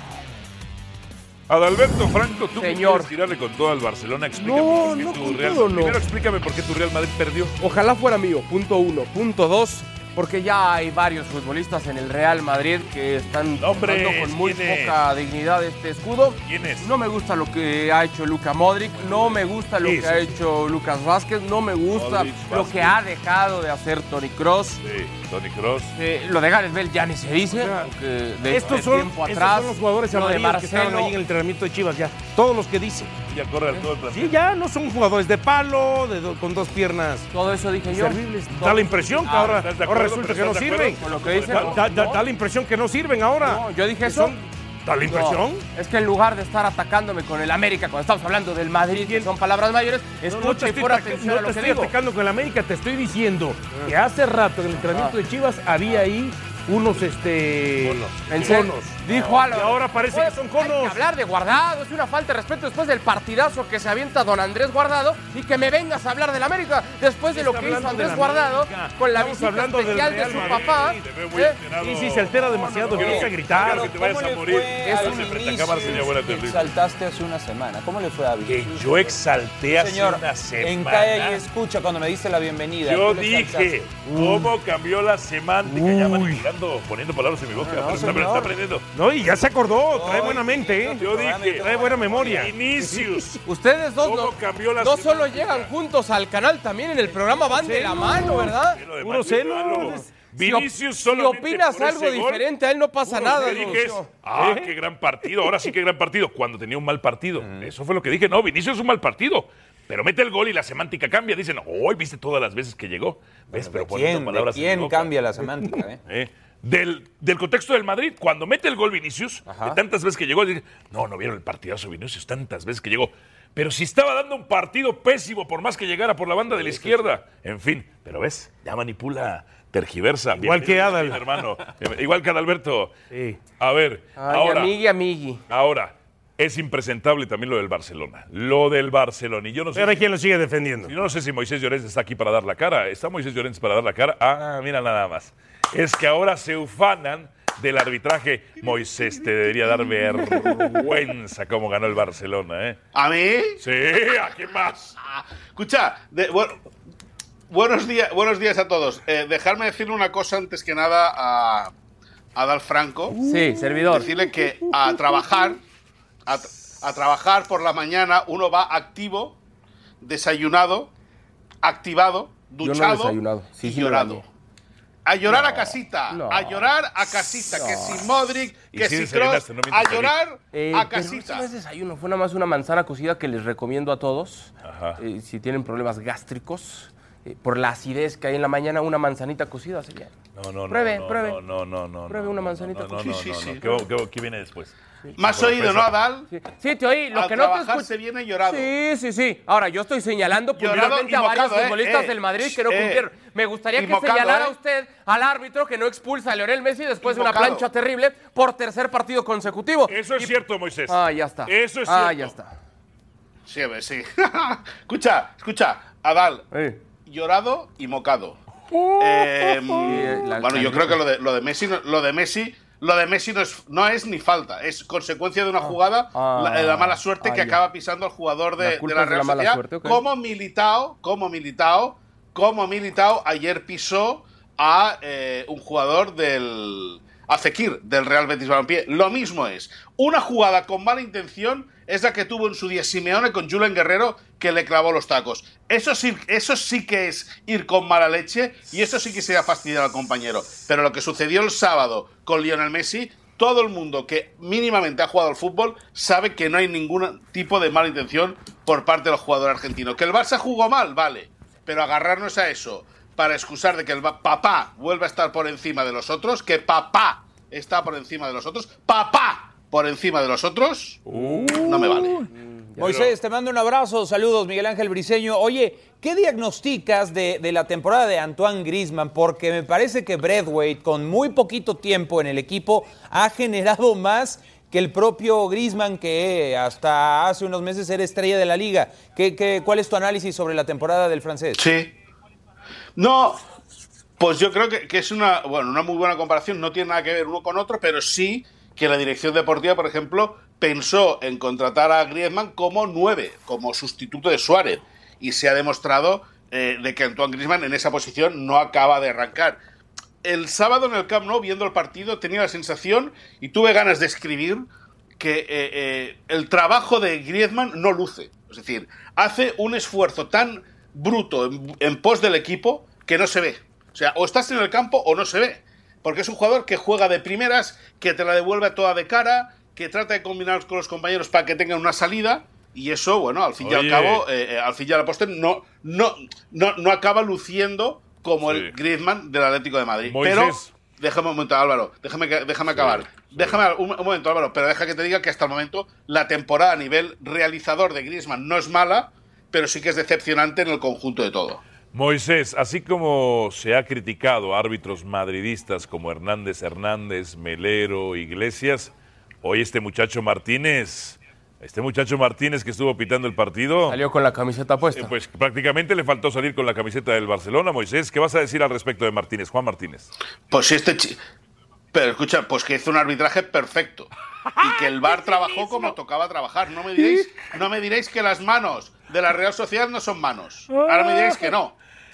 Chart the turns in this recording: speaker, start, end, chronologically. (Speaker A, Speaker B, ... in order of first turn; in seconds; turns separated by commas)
Speaker A: 1.5-7.5, Speaker B: 2.5-3.1, Speaker B: 4.4-6.0, Speaker B: 7.6-24.8, Speaker A: 13.6-15.0, Speaker A: 16.5-16.9, Speaker A: 19.0-19.4, Speaker C: 19.8-20.3, Speaker A: 21.9-23.0, Speaker A: 24.8-25.9, Speaker B: 25.9-31.1, Speaker C: 27.6-27.9, Speaker C: 28.5-33.2, Speaker A: 33.3-34.3, Speaker C: 34.1-37.3, Speaker B: 37.3-39.6, Speaker C: 37.9-41.0, Speaker A: 39.4-41.9, Speaker B: 41.0-42.2, Speaker C: 41.5-45.6, Speaker B: 43.4-44.4, Speaker B: 45.1-51.9, Speaker C: 49.0-49.3, Speaker C: 50.3-61.0, Speaker B: 54.8-55.1, Speaker A: 57.8-59.4, Speaker B: 58.3-71.6, Speaker C: 67.3-71.0, Speaker A: 70.0-76.7, Speaker C: 71.8-73.9, Speaker D: 72.9-83.8, Speaker B: 74.8-75.3, Speaker A: 78.4-81.4, Speaker A: 82.8-88.9, Speaker C: 84.1-84.5, Speaker C: 85.7-86.4, Speaker D: 87.6-88.5, Speaker C: 88.9-93.3, Speaker D: 89.9-92.5, Speaker A: 91.0-93.4, Speaker B: 93.5-98.8, Speaker A: 94.0-95.7, Speaker C: 97.6-98.4, Speaker A: 98.7-102.5, Speaker C: 99.0-100.1, Speaker B: 100.4-104.1, Speaker A: 103.1-115.2, Speaker C: 103.1-104.7, Speaker D: 107.4-107.7, Speaker D: 113.5-116.0, Speaker A: 116.1-132.9, Speaker D: 119.5-119.8, Speaker C: 130.3-131.3, Speaker C: 133.1-133.4, Speaker A: 133.6-134.7, Speaker B: 134.2-135.4, Speaker A: 135.5-140.0, Speaker C: 139.7-140.9, Speaker A: 140.9-152.8, Speaker E: 152.9-153.6, Speaker A: 153.6-155.0, Speaker E: 155.0-156.6, Speaker E: 157.5-161.7, Speaker E: 162.4-163.2, Speaker B: 163.2-164.1, Speaker E: 163.9-165.6, Speaker E: 166.3-169.4, Speaker E: 170.0-170.9, Speaker E: 171.6-174.2, Speaker B: 172.6-174.2, Speaker E: 175.1-181.5, Speaker B: 175.3-176.7, Speaker B: 177.5-178.1, Speaker A: 178.7-180.2, Speaker B: 180.5-190.1, Speaker A: 184.6-185.0, Speaker A: 190.4-196.0, Speaker B: 190.7-191.4, Speaker B: 192.1-193.1, Speaker E: 193.1-193.6, Speaker E: 195.2-196.3, Speaker B: 196.3-197.9, Speaker E: 197.1-198.7, Speaker B: 198.4-210.3, Speaker E: 200.6-203.0, Speaker E: 203.8-204.6, Speaker E: 207.0-207.7, Speaker A: 209.9-212.3, Speaker B: 210.9-212.5, Speaker E: 213.5-216.5, Speaker B: 216.5-216.8, Speaker E: 217.1-218.4, Speaker E: 219.0-271.0, Speaker B: 219.8-221.0, Speaker B: 225.6-227.6, Speaker B: 228.6-230.0, Speaker A: 271.4-271.9, Speaker E: 271.6-272.2, Speaker D: 272.8-291.7, Speaker E: 291.6-291.9, Speaker E: 293.0-293.4, Speaker E: 294.2-309.6, Speaker E: 310.2-314.6, Speaker E: 315.2-351.6, Speaker A: 333.6-334.2, Speaker A: 338.5-338.7, Speaker A: 340.0-340.8, Speaker A: 342.7-343.6, Speaker A: 351.9-364.0, Speaker B: 363.9-365.1, Speaker A: 364.9-370.1, Speaker E: 370.5-371.2, Speaker E: 371.9-374.1, Speaker A: 374.6-375.8, Speaker E: 374.6-381.7, Speaker A: 377.0-377.5, Speaker A: 380.7-381.5